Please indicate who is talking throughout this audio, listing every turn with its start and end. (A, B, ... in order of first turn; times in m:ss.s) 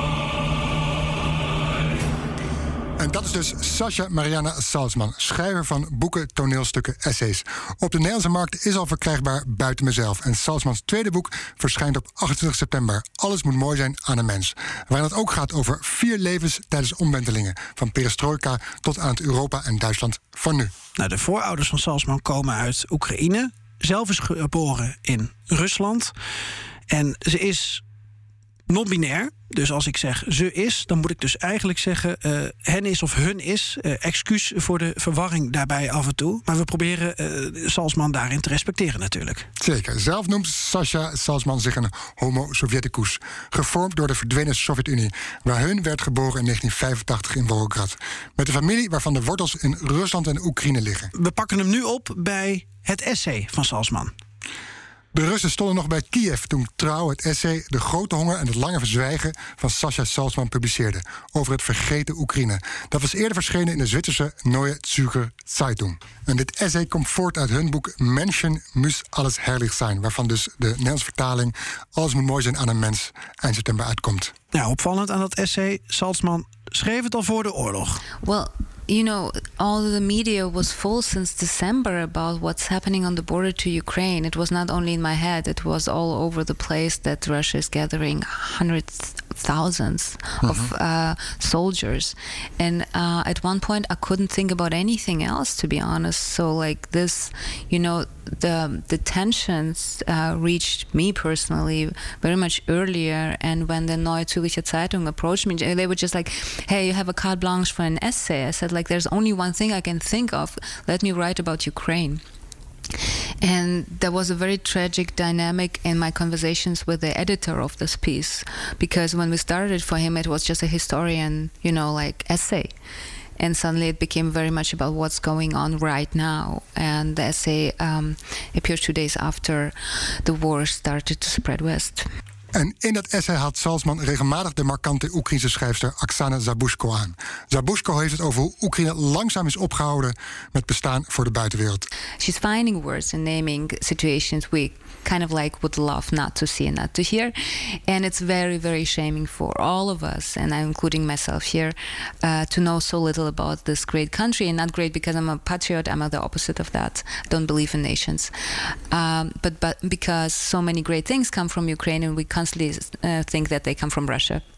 0:03.0-0:20.7 A
0:21.0-0:26.1 B
0:26.9-0:27.8 B
0:28.7-0:39.5 B
0:39.6-0:51.1 A
0:51.1-0:54.1 B
0:55.1-1:14.3 A
1:14.5-1:18.0 B
1:18.2-1:52.2 C
1:30.4-1:30.7 A
1:53.4-2:02.7 C
2:03.4-2:12.1 C
2:12.5-2:21.9 A
2:22.2-2:44.4 C